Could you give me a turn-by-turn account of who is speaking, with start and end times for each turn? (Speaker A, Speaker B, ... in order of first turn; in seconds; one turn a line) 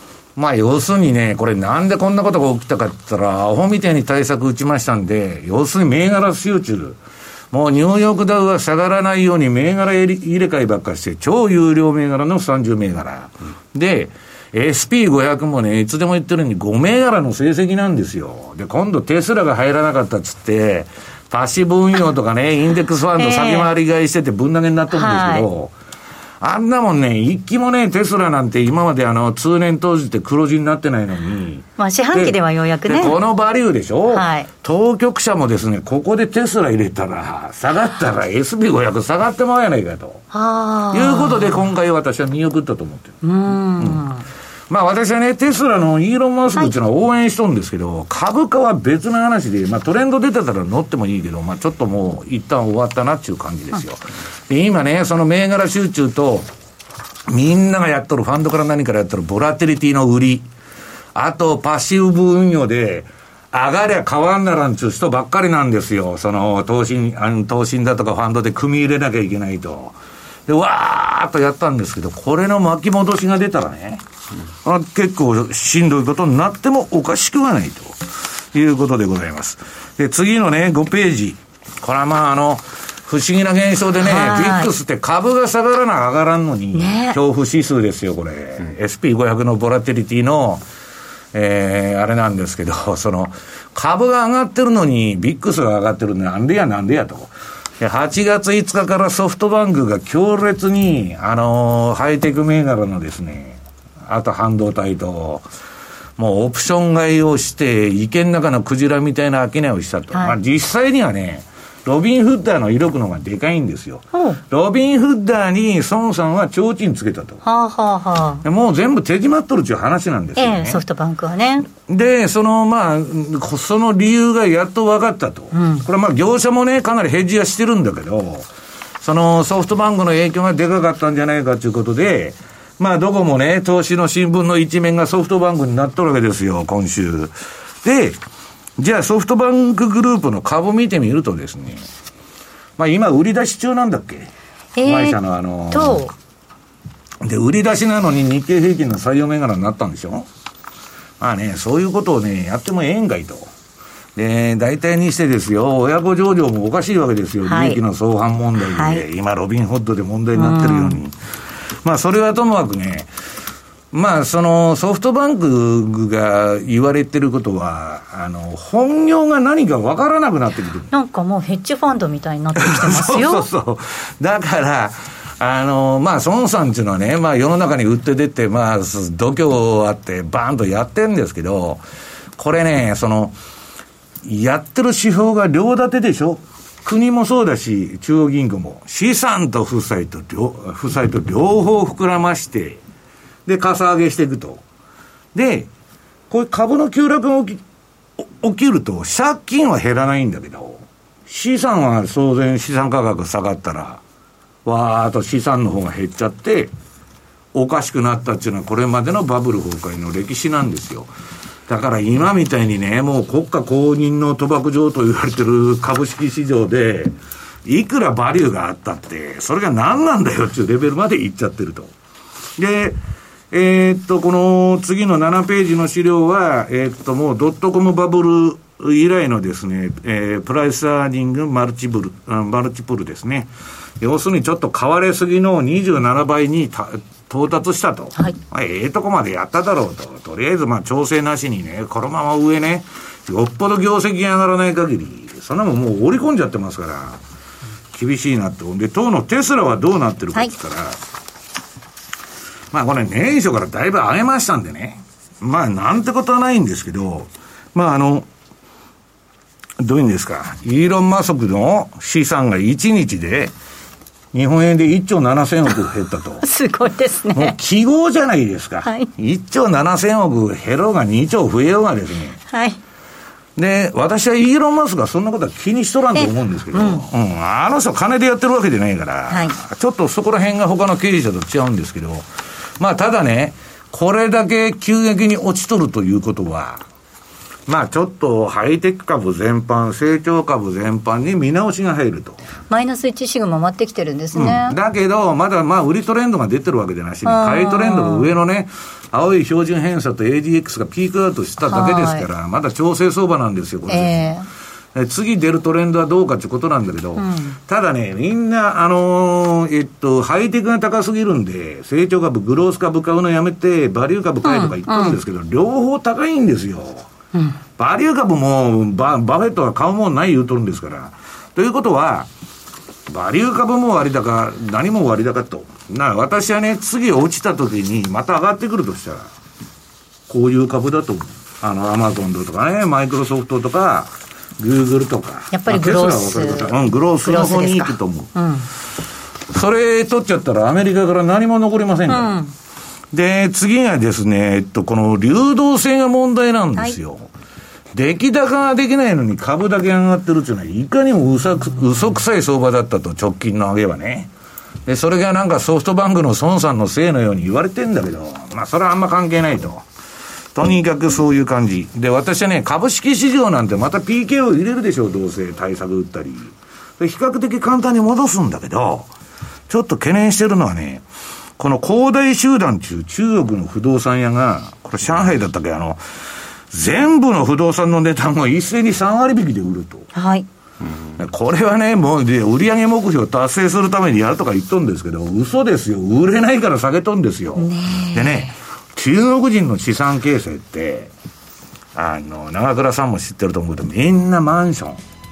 Speaker A: 0.3-7.0
Speaker A: 7.5-25.7
Speaker B: 23.2-23.7
Speaker B: 24.9-25.4
Speaker A: 26.4-40.2
Speaker B: 31.8-33.2
Speaker B: 34.1-34.5
Speaker B: 40.3-41.5
Speaker A: 40.9-43.2
Speaker B: 43.2-44.2
Speaker A: 43.8-44.0
Speaker A: 44.7-56.5
Speaker A: 57.3-60.4
Speaker A: 61.1-70.0
Speaker A: 70.5-74.0
Speaker A: 74.6-90.6
Speaker B: 84.0-84.7
Speaker B: 86.7-87.2
Speaker A: 91.3-105.4
Speaker A: 106.2-117.4
Speaker B: 114.1-114.4
Speaker B: 117.4-118.4
Speaker A: 118.4-120.8
Speaker B: 120.4-121.7
Speaker A: 121.8-128.5
Speaker B: 125.5-125.8
Speaker A: 129.0-138.2
Speaker A: 138.8-141.8
Speaker A: 142.8-144.3
Speaker B: 144.8-145.2
Speaker A: 144.8-146.0
Speaker B: 145.7-146.1
Speaker A: 147.2-150.3
Speaker A: 151.2-153.5
Speaker A: 154.2-161.1
Speaker B: 157.5-157.8
Speaker B: 158.6-159.0
Speaker B: 160.3-161.0
Speaker A: 161.8-163.1
Speaker A: 163.9-170.9
Speaker B: 170.9-173.5
Speaker A: 172.6-181.8
Speaker A: 182.4-183.3
Speaker A: 184.2-192.8
Speaker A: 193.4-194.6
Speaker A: 195.3-195.7
Speaker A: 196.3-197.6
Speaker A: 198.2-204.0
Speaker A: 204.6-206.7
Speaker A: 207.5-211.1
Speaker A: 211.7-221.9
Speaker A: 222.6-223.0
Speaker A: 223.5-233.5
Speaker A: 234.0-247.2
Speaker A: 247.9-251.0
Speaker A: 252.7-258.3
Speaker A: 259.8-263.5
Speaker A: 264.3-266.4
Speaker B: 266.4-267.6
Speaker A: 267.3-272.4
Speaker B: 268.8-269.1
Speaker B: 272.5-272.8
Speaker A: 273.6-282.2
Speaker B: 276.2-277.0
Speaker B: 279.3-279.6
Speaker A: 282.8-286.8
Speaker A: 287.7-292.4
Speaker B: 292.7-294.8
Speaker A: 294.3-304.3
Speaker B: 297.2-298.3
Speaker B: 301.7-302.3
Speaker B: 303.9-304.5
Speaker A: 304.9-317.1
Speaker B: 307.1-307.6
Speaker B: 314.4-315.2
Speaker A: 317.8-322.3
Speaker A: 323.1-329.3
Speaker A: 330.3-338.3
Speaker B: 335.5-338.7
Speaker A: 339.5-342.4
Speaker B: 342.1-342.5
Speaker A: 343.1-347.3
Speaker A: 347.9-354.3
Speaker A: 354.9-359.8
Speaker A: 360.5-369.1
Speaker A: 369.7-371.0
Speaker A: 371.6-376.0
Speaker A: 376.7-380.1
Speaker B: 380.1-380.5
Speaker A: 381.1-391.1
Speaker B: 387.6-388.5
Speaker A: 391.9-395.0